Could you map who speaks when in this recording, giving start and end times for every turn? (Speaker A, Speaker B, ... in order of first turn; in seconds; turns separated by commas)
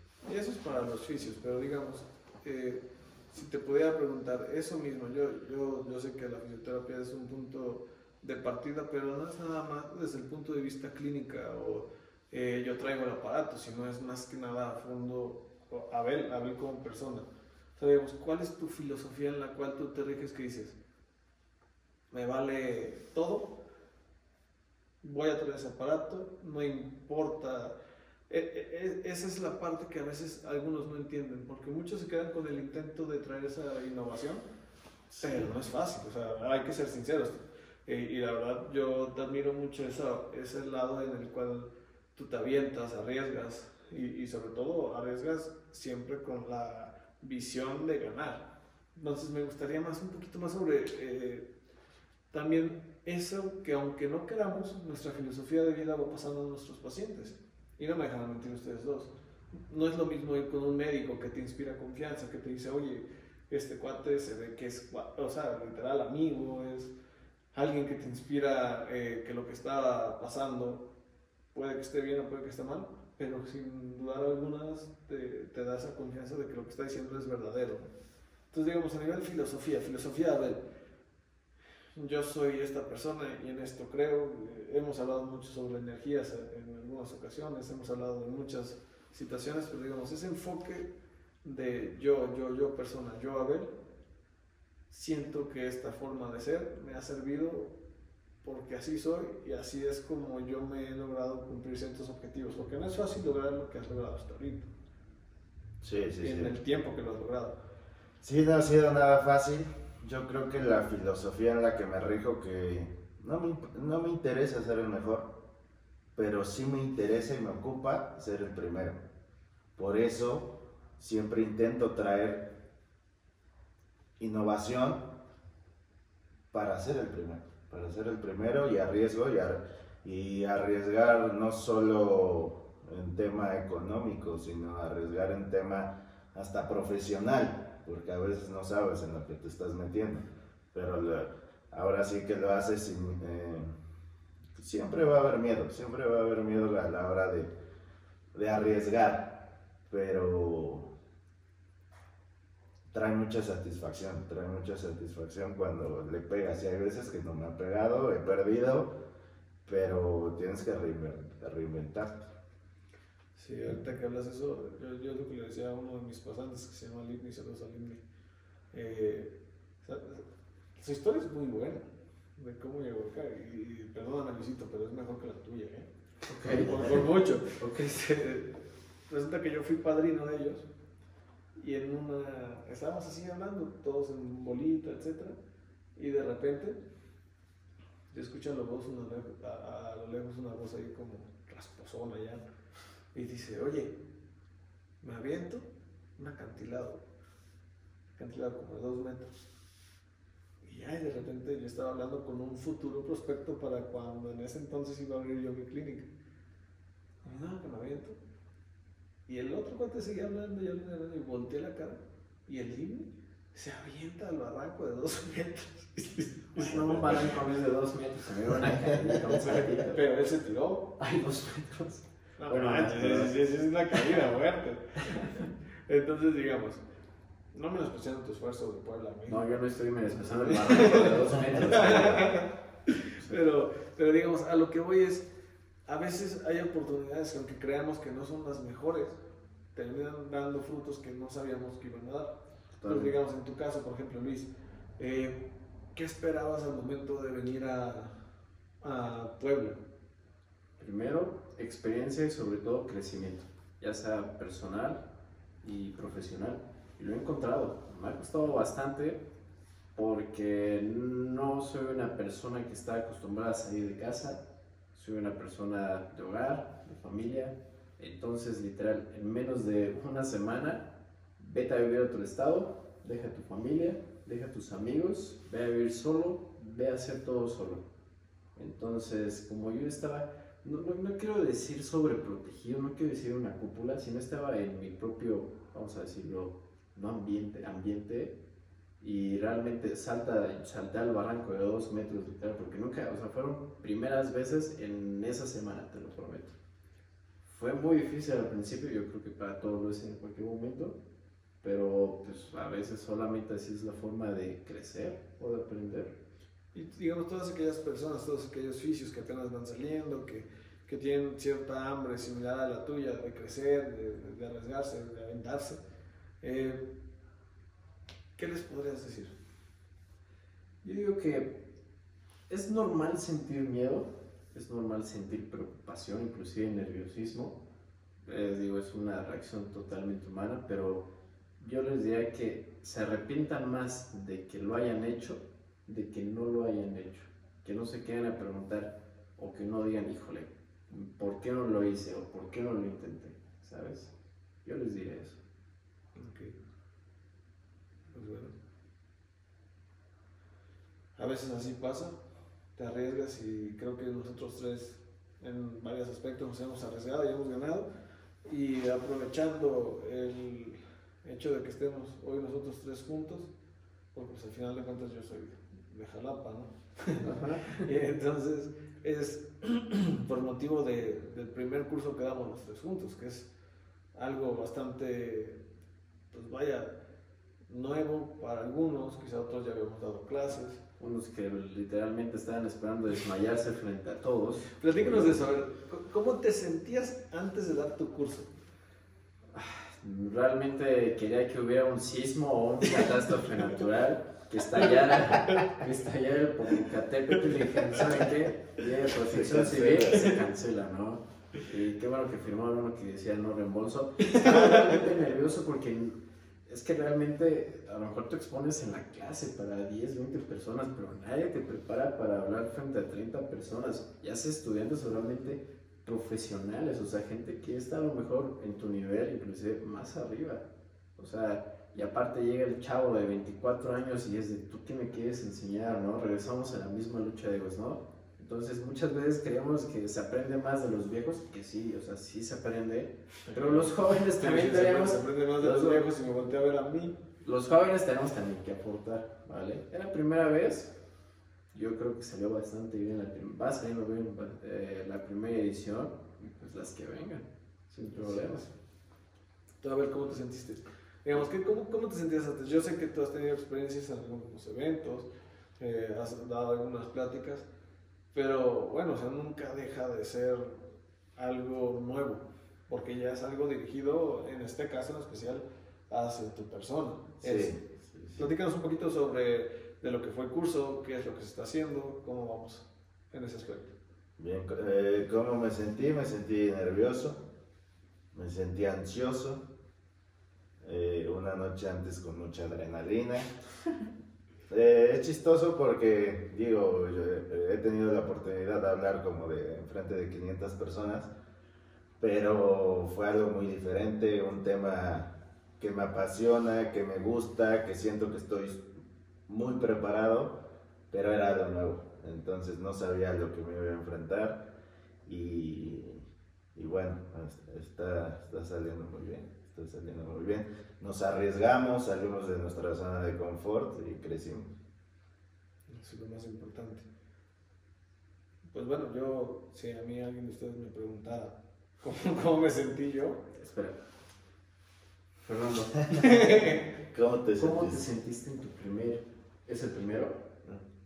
Speaker A: 0.2-20.8, Speaker A: 22.1-23.5, Speaker A: 25.0-27.7, Speaker A: 28.3-34.4, Speaker B: 35.1-35.5, Speaker A: 35.2-48.4, Speaker A: 48.9-51.5, Speaker A: 52.3-59.1, Speaker A: 59.7-66.9, Speaker A: 67.5-70.8, Speaker A: 71.5-77.9, Speaker A: 78.5-80.6, Speaker A: 81.9-90.9, Speaker A: 91.4-93.7, Speaker A: 94.9-97.7, Speaker A: 98.4-104.7, Speaker B: 105.8-106.6, Speaker A: 106.2-107.5, Speaker B: 108.2-115.3, Speaker B: 116.1-119.0, Speaker B: 119.8-122.5, Speaker B: 124.2-125.0, Speaker B: 126.5-143.7, Speaker B: 144.5-147.5, Speaker B: 148.3-150.9, Speaker B: 152.9-158.9, Speaker B: 159.7-162.2, Speaker A: 163.3-168.0, Speaker A: 168.7-170.2, Speaker A: 170.8-171.8, Speaker A: 172.4-175.9, Speaker C: 176.3-177.0, Speaker A: 176.5-180.7, Speaker C: 177.6-177.9, Speaker A: 181.6-185.4, Speaker A: 185.9-186.8, Speaker A: 188.1-192.4, Speaker A: 193.1-193.9, Speaker A: 195.0-197.0, Speaker A: 198.1-199.3, Speaker A: 200.6-206.1, Speaker A: 207.2-208.2, Speaker A: 209.3-217.1, Speaker C: 216.6-220.0, Speaker B: 216.7-217.4, Speaker B: 218.6-219.8, Speaker A: 219.8-220.9, Speaker C: 221.0-223.3, Speaker A: 222.4-226.8, Speaker C: 225.1-225.4, Speaker A: 227.5-229.5, Speaker C: 229.3-232.4, Speaker A: 230.3-235.2, Speaker A: 235.9-239.2, Speaker A: 239.7-245.4, Speaker C: 242.8-243.1, Speaker A: 245.9-248.2, Speaker A: 248.8-249.8, Speaker C: 250.8-255.0, Speaker C: 255.6-259.2, Speaker C: 259.9-277.9, Speaker C: 278.5-288.4, Speaker C: 289.0-296.6, Speaker C: 297.4-301.0, Speaker C: 301.6-306.1, Speaker A: 306.7-315.8, Speaker A: 316.4-316.8, Speaker A: 318.4-319.3, Speaker C: 320.8-321.6, Speaker C: 322.5-327.6, Speaker C: 328.2-331.1, Speaker C: 331.6-344.1, Speaker C: 344.6-345.4, Speaker A: 346.1-346.6, Speaker A: 348.1-348.5, Speaker A: 351.2-352.2, Speaker A: 352.8-357.9, Speaker A: 358.4-363.5, Speaker A: 364.1-373.5, Speaker C: 367.2-367.9, Speaker A: 374.1-375.6, Speaker A: 376.3-376.9, Speaker A: 377.7-380.8, Speaker C: 381.0-385.4, Speaker A: 384.7-388.5, Speaker C: 389.5-436.1, Speaker A: 394.7-395.8, Speaker B: 399.2-400.3, Speaker A: 404.2-405.0, Speaker A: 433.4-437.2, Speaker C: 437.4-440.9, Speaker C: 441.7-448.6, Speaker A: 448.1-448.7, Speaker A: 449.8-455.3, Speaker A: 455.8-457.7, Speaker A: 458.3-467.8, Speaker B: 467.4-468.5, Speaker A: 468.4-473.9, Speaker B: 474.4-477.4, Speaker B: 478.3-479.6, Speaker B: 480.8-483.5, Speaker B: 484.7-491.3, Speaker B: 492.2-498.9, Speaker B: 499.5-500.6, Speaker B: 501.1-504.6, Speaker B: 505.2-506.2, Speaker B: 506.7-514.7, Speaker A: 515.9-517.1, Speaker A: 518.7-523.4, Speaker C: 523.5-524.0, Speaker C: 525.4-526.6, Speaker B: 526.1-526.3, Speaker A: 526.2-526.9, Speaker B: 527.1-528.0, Speaker C: 527.6-530.4